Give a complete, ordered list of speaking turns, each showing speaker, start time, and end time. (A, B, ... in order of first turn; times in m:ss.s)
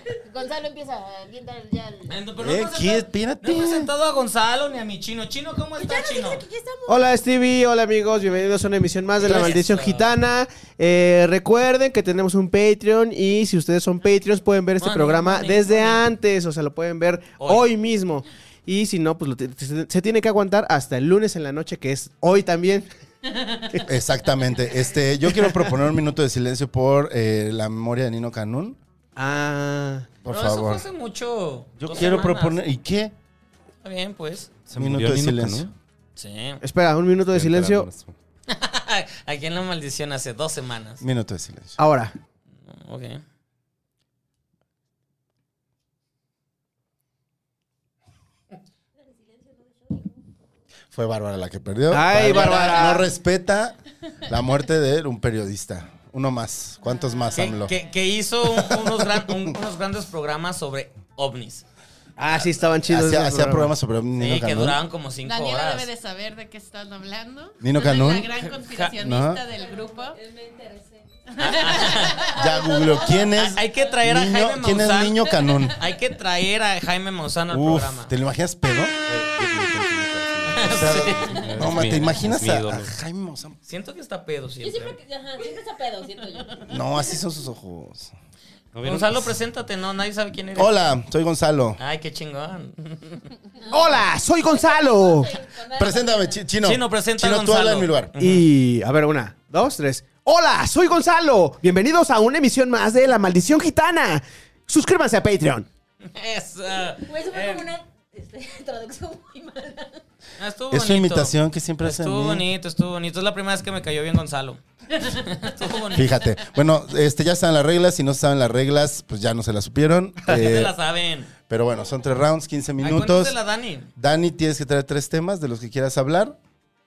0:00.2-0:02.1 A
0:02.1-0:06.4 B
0:02.4-0:03.9 C
0:05.8-0:07.2 A
0:06.9-0:22.9 D
0:09.2-0:10.1 B
0:14.8-0:16.0 B
0:17.4-0:17.7 B
0:23.8-0:28.8 C
0:25.3-0:25.7 D
0:29.2-0:30.1 D
0:30.2-0:30.8 C
0:30.3-0:32.6 B
0:31.8-0:33.1 C
0:33.8-0:34.6 B
0:34.6-0:35.7 E
0:34.7-0:35.7 C
0:36.2-0:36.6 B
0:36.6-0:37.9 D
0:37.3-0:38.1 E
0:38.5-0:41.0 B
0:41.0-0:41.8 C
0:41.8-0:42.1 D
0:42.6-0:43.2 B
0:49.0-0:50.1 A
0:50.9-0:57.7 C
0:51.9-0:53.0 D
0:52.3-0:52.9 B
0:56.8-0:57.5 F
0:57.3-1:01.6 B
0:58.6-0:59.3 C
1:02.2-1:03.7 D
1:02.9-1:04.8 C
1:04.2-1:05.9 B
1:05.2-1:10.2 F
1:07.6-1:08.3 C
1:08.4-1:08.9 B
1:08.9-1:09.4 C
1:09.6-1:13.3 A
1:11.3-1:12.8 F
1:11.4-1:12.2 B
1:12.4-1:15.8 C
1:13.3-1:18.1 B
1:17.5-1:18.9 C
1:19.1-1:22.9 E
1:20.5-1:21.5 B
1:20.7-1:23.6 C
1:23.7-1:25.0 B
1:24.6-1:26.8 A
1:26.7-1:28.1 C
1:28.7-1:29.3 E
1:28.8-1:30.8 B
1:30.6-1:31.8 C
1:31.8-1:33.3 B
1:33.6-1:36.4 A
1:33.7-1:35.3 D
1:35.7-1:38.1 C
1:36.6-1:38.5 B
1:38.2-1:45.7 D
1:46.0-1:47.6 B
1:47.0-1:50.0 A
1:50.4-1:56.2 B
1:50.7-1:52.4 C
1:55.9-2:00.8 C
2:00.2-2:01.3 B
2:01.5-2:03.3 C
2:02.8-2:03.9 B
2:04.0-2:06.4 C